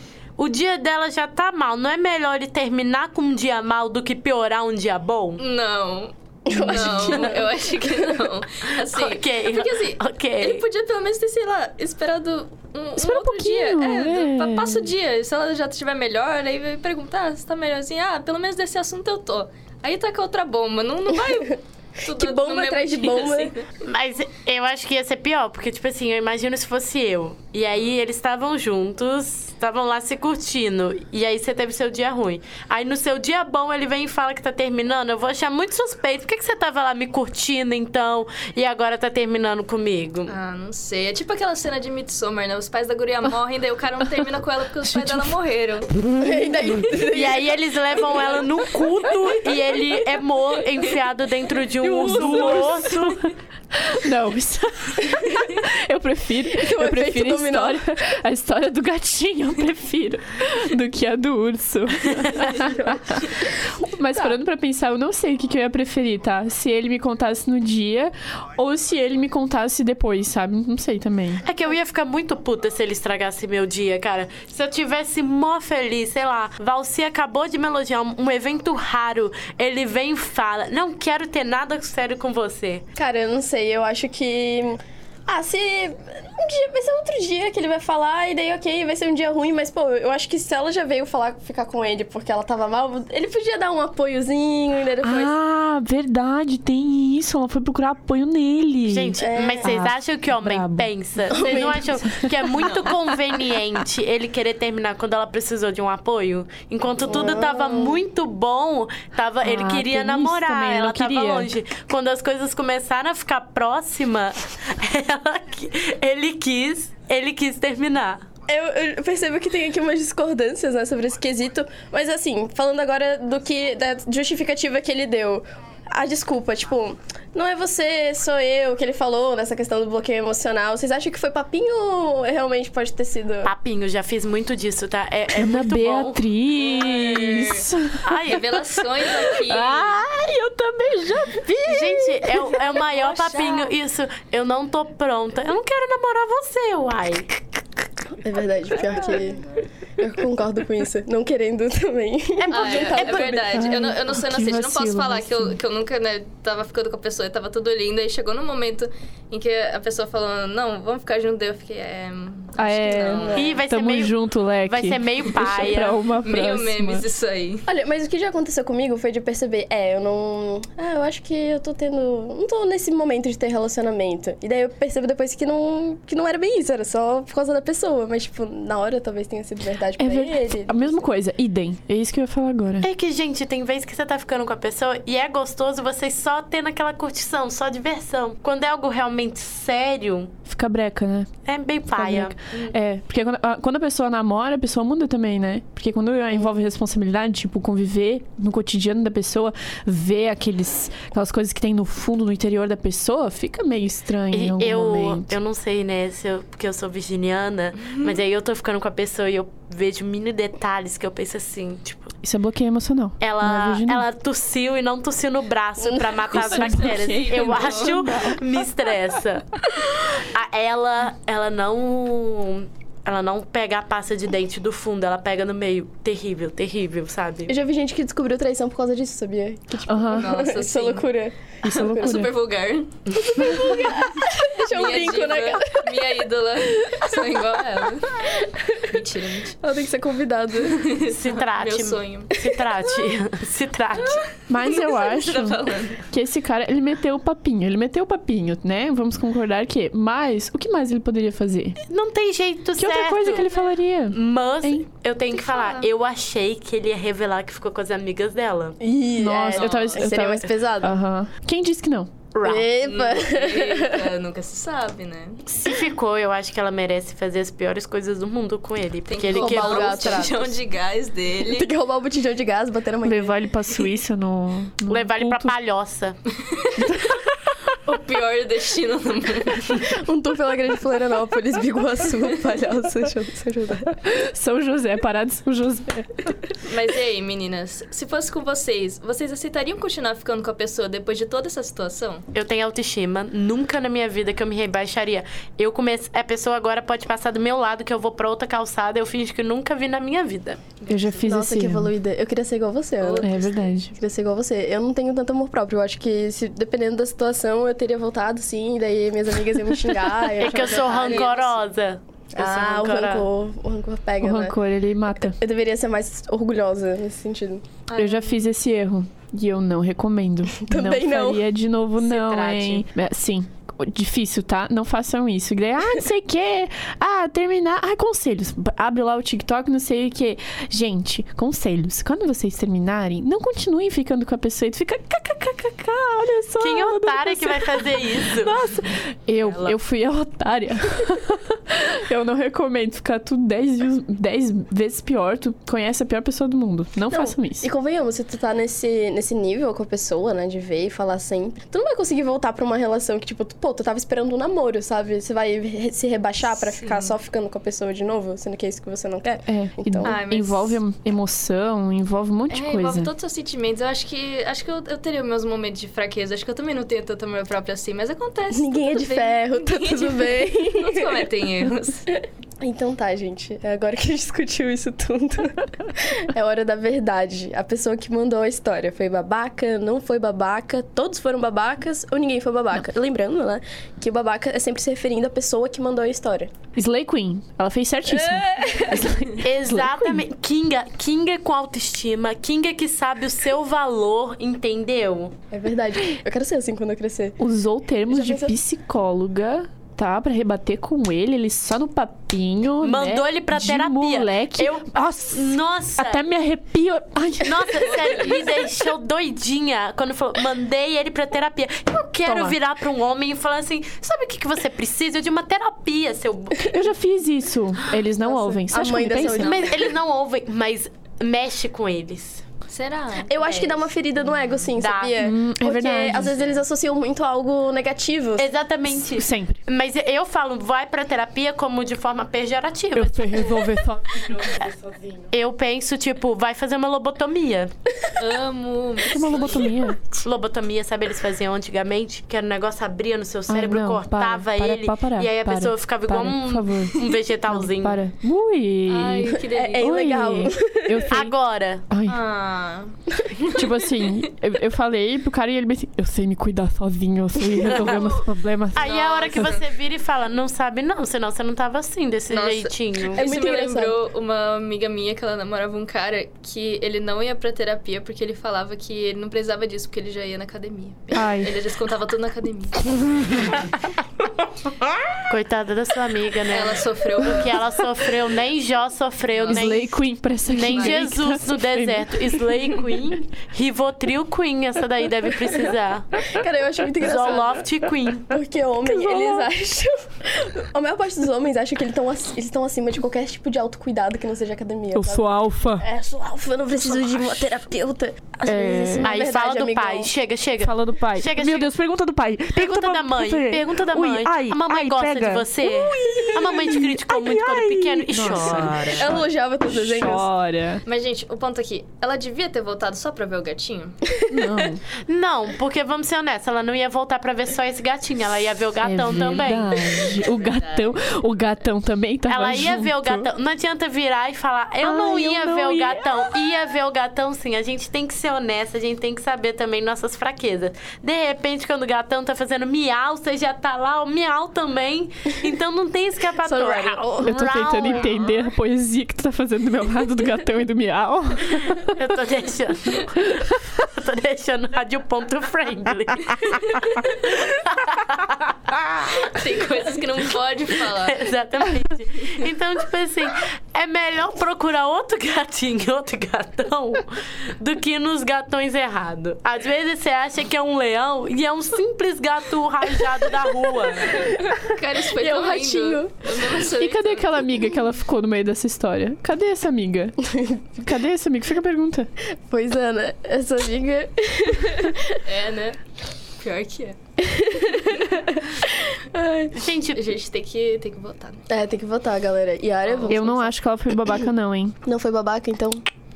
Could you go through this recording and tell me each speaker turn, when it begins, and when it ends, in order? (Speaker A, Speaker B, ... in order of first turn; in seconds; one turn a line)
Speaker A: 0.4-5.4
Speaker B: 5.4-23.6
Speaker C: 6.5-7.7
Speaker A: 8.9-10.6
Speaker D: 13.0-14.9
Speaker C: 22.1-23.5
Speaker A: 23.8-40.4
Speaker B: 40.3-45.9
Speaker C: 46.1-48.2
Speaker A: 47.1-53.2
Speaker D: 51.9-53.1
Speaker B: 52.0-52.7
Speaker D: 53.8-71.4
Speaker C: 56.6-57.8
Speaker C: 62.6-63.0
Speaker A: 71.5-82.8
Speaker C: 83.0-95.3
Speaker D: 95.0-102.3
Speaker A: 98.9-118.3
Speaker C: 99.2-99.7
Speaker C: 101.3-102.0
Speaker B: 102.5-103.2
Speaker C: 107.0-108.0
Speaker D: 109.4-111.5
Speaker C: 118.5-133.5
Speaker A: 133.4-136.2
Speaker D: 135.3-138.4
Speaker B: 136.6-137.6
Speaker A: 136.8-137.5
Speaker A: 138.1-138.8
Speaker B: 138.2-140.0
Speaker D: 139.1-142.5
Speaker A: 141.7-147.3
Speaker B: 142.7-143.7
Speaker C: 148.1-149.4
Speaker C: 150.0-153.6
Speaker A: 152.4-153.4
Speaker B: 152.5-163.5
Speaker D: 153.6-155.6
Speaker D: 162.6-167.0
Speaker C: 163.2-163.6
Speaker A: 163.3-166.0
Speaker B: 166.2-167.7
Speaker C: 167.7-181.1
Speaker D: 180.0-182.9
Speaker A: 182.8-190.3
Speaker D: 190.5-191.3
Speaker A: 191.5-192.8
Speaker D: 192.0-205.3
Speaker A: 204.3-212.1
Speaker D: 212.2-214.1
Speaker A: 213.2-219.5
Speaker C: 215.8-216.2
Speaker B: 216.3-218.1
Speaker D: 216.3-218.4
Speaker A: 220.0-227.5
Speaker C: 227.5-232.3
Speaker D: 229.9-230.3
Speaker B: 230.1-231.1
Speaker D: 231.6-232.3
Speaker B: 231.7-232.9
Speaker C: 233.1-236.1
Speaker B: 233.5-234.0
Speaker B: 234.7-239.6
Speaker C: 238.2-238.7
Speaker C: 239.6-240.8
Speaker B: 240.7-242.3
Speaker A: 241.1-244.2
Speaker B: 244.0-246.1
Speaker D: 244.5-251.8
Speaker A: 251.8-253.6
Speaker D: 252.8-254.9
Speaker A: 254.1-258.8
Speaker B: 255.3-255.9
Speaker C: 258.8-260.9
Speaker D: 259.2-262.1
Speaker B: 259.5-260.1
Speaker A: 262.4-262.7
Speaker C: 262.4-264.1
Speaker B: 262.8-265.4
Speaker A: 265.5-270.3
Speaker B: 269.1-271.7
Speaker C: 269.3-270.6
Speaker C: 271.4-273.4
Speaker D: 273.0-275.5
Speaker A: 274.9-276.2
Speaker B: 276.5-276.9
Speaker D: 276.8-277.5
Speaker B: 277.9-279.9
Speaker C: 279.8-284.0
Speaker D: 284.1-286.4
Speaker B: 286.6-292.2
Speaker A: 292.3-300.8
Speaker B: 300.8-301.2
Speaker D: 300.9-301.9
Speaker C: 301.2-303.3
Speaker B: 303.0-303.7
Speaker D: 303.2-303.9
Speaker C: 303.9-311.5
Speaker A: 310.4-313.3
Speaker B: 310.6-311.4
Speaker C: 312.3-314.6
Speaker D: 314.2-315.4
Speaker C: 315.1-317.6
Speaker B: 317.9-318.5
Speaker D: 318.0-347.7
Speaker C: 320.6-321.4
Speaker A: 322.0-322.9
Speaker A: 336.6-338.6
Speaker A: 339.4-339.8
Speaker C: 347.1-360.2
Speaker B: 356.5-357.1
Speaker D: 359.5-363.1
Speaker B: 360.0-360.8
Speaker B: 362.5-372.1
Speaker C: 368.5-371.2
Speaker C: 372.6-386.5
Speaker D: 386.8-390.2
Speaker C: 388.2-389.0
Speaker A: 389.4-395.3
Speaker C: 395.5-397.4
Speaker D: 397.4-407.8
Speaker C: 398.1-398.5
Speaker A: 402.8-406.2
Speaker A: 407.4-416.9
Speaker B: 407.8-408.5
Speaker D: 412.2-412.6
Speaker D: 416.7-419.6
Speaker C: 418.2-419.8
Speaker A: 419.4-422.4
Speaker B: 422.7-423.8
Speaker C: 423.3-428.5
Speaker A: 424.8-425.2
Speaker D: 425.2-426.3
Speaker B: 426.1-426.6
Speaker A: 428.4-433.7
Speaker D: 429.1-429.6
Speaker D: 432.9-435.2
Speaker A: 434.3-434.7
Speaker A: 435.3-437.7
Speaker B: 438.2-439.9
Speaker D: 439.1-440.0
Speaker A: 440.2-448.0
Speaker D: 443.5-447.0
Speaker D: 447.5-451.3
Speaker B: 448.9-449.9
Speaker C: 449.4-451.1
Speaker A: 451.1-451.9
Speaker D: 451.9-452.2
Speaker B: 452.1-454.0
Speaker D: 453.6-459.6
Speaker A: 457.6-458.2
Speaker B: 458.7-459.7
Speaker A: 458.7-463.3
Speaker B: 462.3-473.6
Speaker C: 463.2-464.0
Speaker D: 471.1-471.5
Speaker A: 475.3-486.1
Speaker B: 476.5-477.8
Speaker B: 479.3-479.8
Speaker D: 479.5-482.8
Speaker B: 480.6-481.1
Speaker C: 486.2-487.7
Speaker A: 487.0-488.3
Speaker C: 488.3-500.1
Speaker D: 488.9-489.5
Speaker D: 494.9-495.9
Speaker B: 496.9-497.5
Speaker D: 498.4-499.1
Speaker A: 499.0-501.7
Speaker D: 500.6-510.8
Speaker A: 502.5-509.2
Speaker C: 508.8-510.3
Speaker B: 510.9-514.0
Speaker D: 514.3-514.8
Speaker A: 515.0-520.0
Speaker D: 518.8-523.3
Speaker B: 519.9-521.0
Speaker A: 522.3-538.3
Speaker D: 524.8-526.2
Speaker C: 536.4-538.1
Speaker D: 537.2-542.0
Speaker A: 542.0-549.0
Speaker B: 546.5-547.1
Speaker B: 549.0-551.3
Speaker A: 550.9-564.3
Speaker B: 564.2-567.3
Speaker C: 565.2-566.2
Speaker D: 566.8-570.2
Speaker D: 570.7-572.1
Speaker C: 572.4-575.2
Speaker B: 575.2-575.8
Speaker B: 576.4-577.0
Speaker C: 577.2-578.6
Speaker C: 579.1-579.5
Speaker A: 579.5-580.0
Speaker B: 579.9-581.5
Speaker C: 581.5-583.5
Speaker B: 582.9-583.2
Speaker D: 583.1-584.8
Speaker C: 584.8-585.8